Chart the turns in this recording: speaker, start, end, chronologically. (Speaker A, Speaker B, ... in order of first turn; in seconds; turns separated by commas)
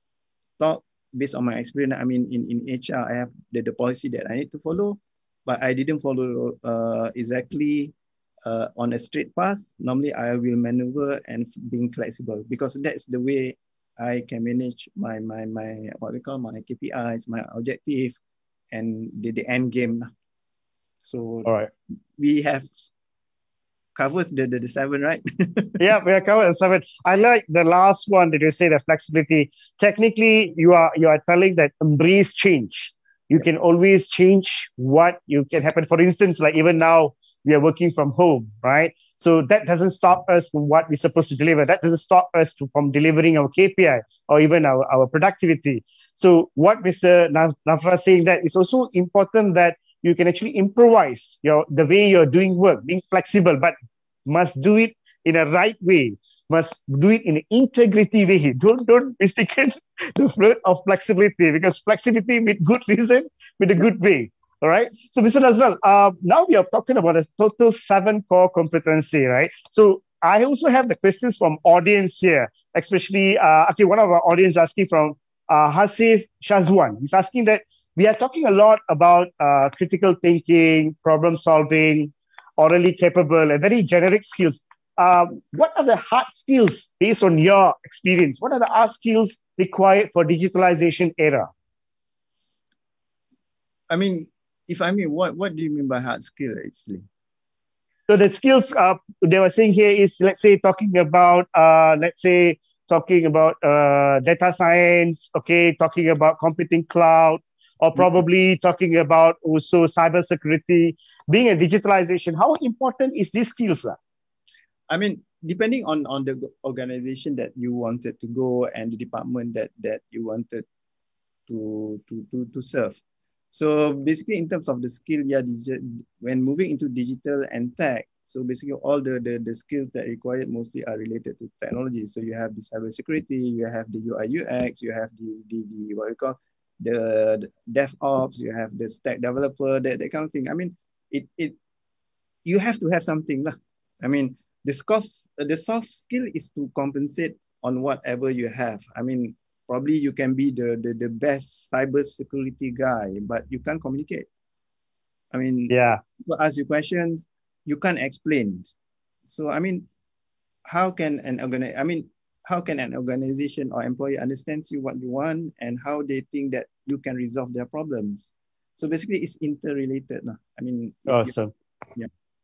Speaker A: 0.6-7.9, Speaker A: 8.4-18.2, Speaker A: 18.7-20.1, Speaker A: 21.0-21.5, Speaker B: 21.4-21.7, Speaker A: 22.2-22.9, Speaker A: 23.9-25.8, Speaker B: 25.8-53.7, Speaker B: 54.3-91.5, Speaker A: 93.9-97.0, Speaker B: 98.1-114.0, Speaker A: 114.9-120.7, Speaker A: 121.5-123.0, Speaker A: 123.5-141.6, Speaker A: 142.4-154.3, Speaker A: 155.3-158.7, Speaker B: 155.7-156.0, Speaker A: 159.3-159.9, Speaker A: 160.7-171.3, Speaker B: 171.1-171.5